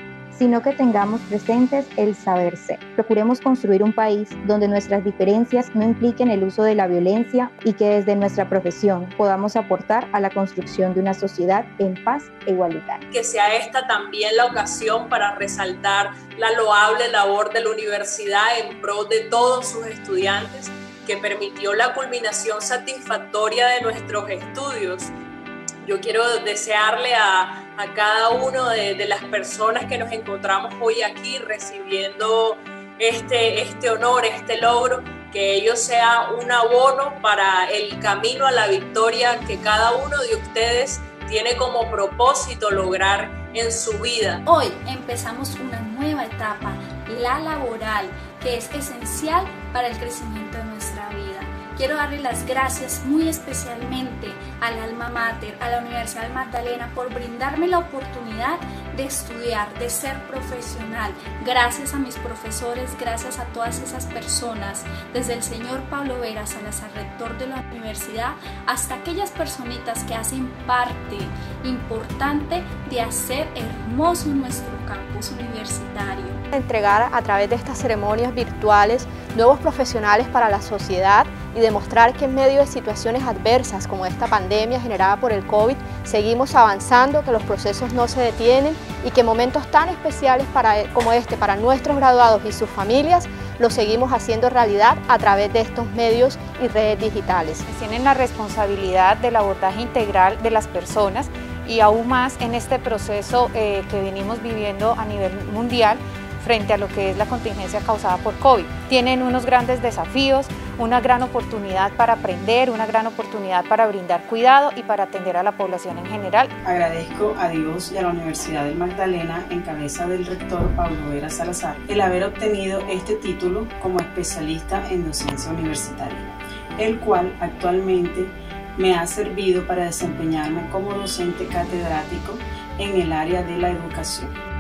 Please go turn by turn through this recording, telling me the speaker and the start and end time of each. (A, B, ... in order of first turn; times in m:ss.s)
0:00.3-0:13.0 A
0:13.1-0:25.1 B
0:25.8-0:44.4 B
0:44.5-1:16.4 C
1:16.5-1:37.6 D
1:37.7-1:56.5 E
1:56.6-2:06.3 F
2:06.8-2:14.3 F